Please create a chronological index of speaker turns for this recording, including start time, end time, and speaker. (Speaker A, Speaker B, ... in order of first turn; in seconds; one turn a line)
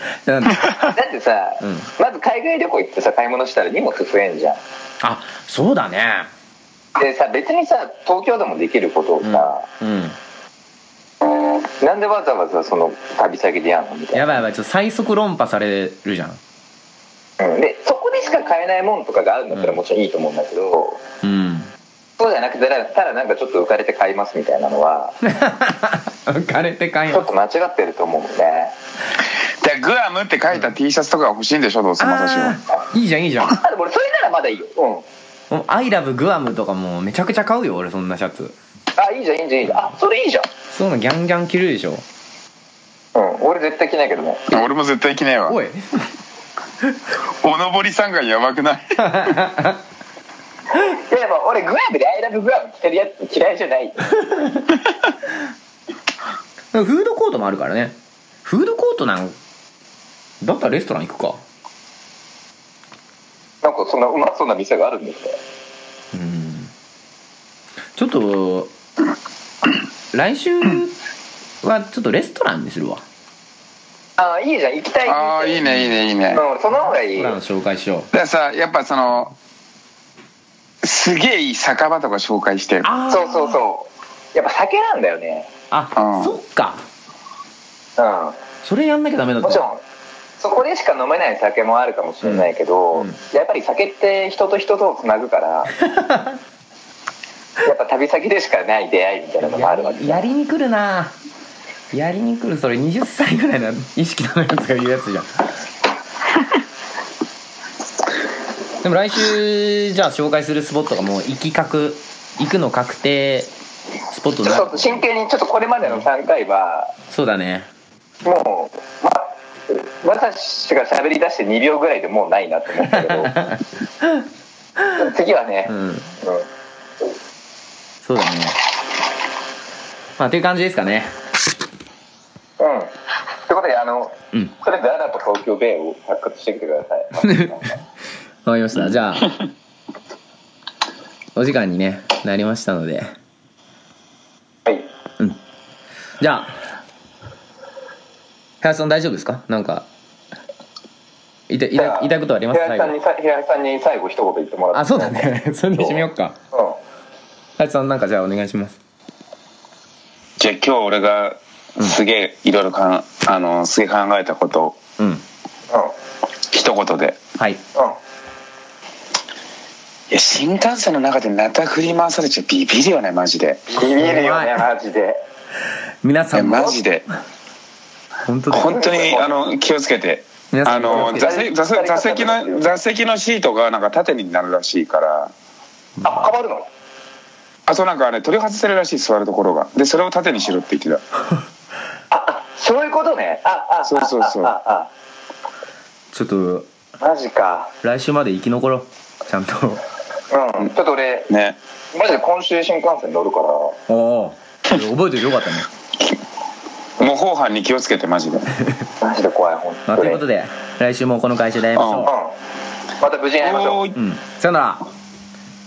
Speaker A: 0.2-0.8
Speaker B: 0.8-4.6
Speaker A: 1.6-1.9
Speaker A: 5.0-6.3
Speaker B: 7.0-9.6
Speaker A: 9.2-10.2
Speaker B: 11.4-14.2
Speaker A: 14.1-16.4
Speaker B: 17.4-21.0
Speaker A: 19.5-19.8
Speaker A: 21.2-21.7
Speaker B: 22.2-25.2
Speaker A: 25.2-27.3
Speaker B: 27.1-28.7
Speaker C: 29.6-32.6
Speaker A: 32.0-33.6
Speaker B: 33.5-35.0
Speaker A: 35.5-38.5
Speaker B: 38.9-40.5
Speaker A: 40.7-42.0
Speaker B: 43.1-44.5
Speaker C: 44.5-45.6
Speaker A: 45.5-46.1
Speaker C: 47.4-49.4
Speaker A: 49.0-49.8
Speaker B: 50.7-54.2
Speaker A: 54.2-54.6
Speaker A: 56.7-59.3
Speaker A: 60.4-61.4
Speaker B: 63.6-65.4
Speaker A: 66.1-66.7
Speaker A: 68.0-68.7
Speaker A: 70.1-71.0
Speaker A: 71.6-73.0
Speaker B: 74.2-75.6
Speaker C: 75.0-76.4
Speaker A: 75.6-76.0
Speaker B: 76.3-77.3
Speaker A: 77.1-78.1
Speaker C: 78.1-79.3
Speaker C: 80.8-82.9
Speaker A: 82.8-83.6
Speaker B: 83.1-85.5
Speaker A: 85.7-86.8
Speaker C: 86.0-86.3
Speaker B: 88.0-88.4
Speaker A: 88.6-89.7
Speaker B: 89.4-89.8
Speaker B: 90.4-95.7
Speaker A: 92.2-93.2
Speaker A: 95.8-96.4
Speaker B: 97.6-100.2
Speaker A: 99.4-101.1
Speaker A: 101.9-105.5
Speaker A: 108.8-113.5
Speaker A: 114.1-115.0
Speaker B: 114.4-116.9
Speaker A: 117.1-117.7
Speaker B: 118.2-123.3
Speaker A: 122.8-124.2
Speaker B: 124.9-126.5
Speaker A: 125.7-126.1
Speaker A: 128.0-128.6
Speaker A: 130.2-131.1
Speaker B: 132.6-132.9
Speaker B: 133.5-137.7
Speaker A: 137.2-137.6
Speaker A: 138.4-139.4
Speaker A: 141.3-143.1
Speaker A: 146.2-146.6
Speaker A: 148.6-149.8
Speaker A: 151.5-152.9
Speaker B: 151.7-156.8
Speaker A: 154.7-156.3
Speaker A: 157.6-158.8
Speaker C: 160.4-164.8
Speaker A: 165.0-165.2
Speaker C: 166.5-167.2
Speaker C: 170.1-173.8
Speaker B: 173.7-175.2
Speaker A: 173.8-174.6
Speaker A: 176.0-176.8
Speaker C: 176.3-177.1
Speaker A: 178.2-178.8
Speaker C: 178.5-185.3
Speaker B: 178.6-179.5
Speaker A: 180.5-181.4
Speaker B: 180.9-182.8
Speaker A: 186.0-186.3
Speaker B: 186.0-186.7
Speaker C: 187.7-191.0
Speaker B: 192.1-194.9
Speaker C: 193.8-194.5
Speaker A: 196.1-196.7
Speaker B: 197.0-197.7
Speaker A: 197.8-199.8
Speaker B: 200.3-201.3
Speaker C: 201.3-201.6
Speaker B: 201.9-203.8
Speaker A: 203.9-205.7
Speaker C: 207.0-208.5
Speaker A: 208.6-208.8
Speaker B: 209.0-210.2
Speaker A: 209.9-212.1
Speaker C: 211.8-212.1
Speaker B: 212.0-212.3
Speaker B: 213.0-213.8
Speaker C: 213.4-213.9
Speaker A: 213.9-214.8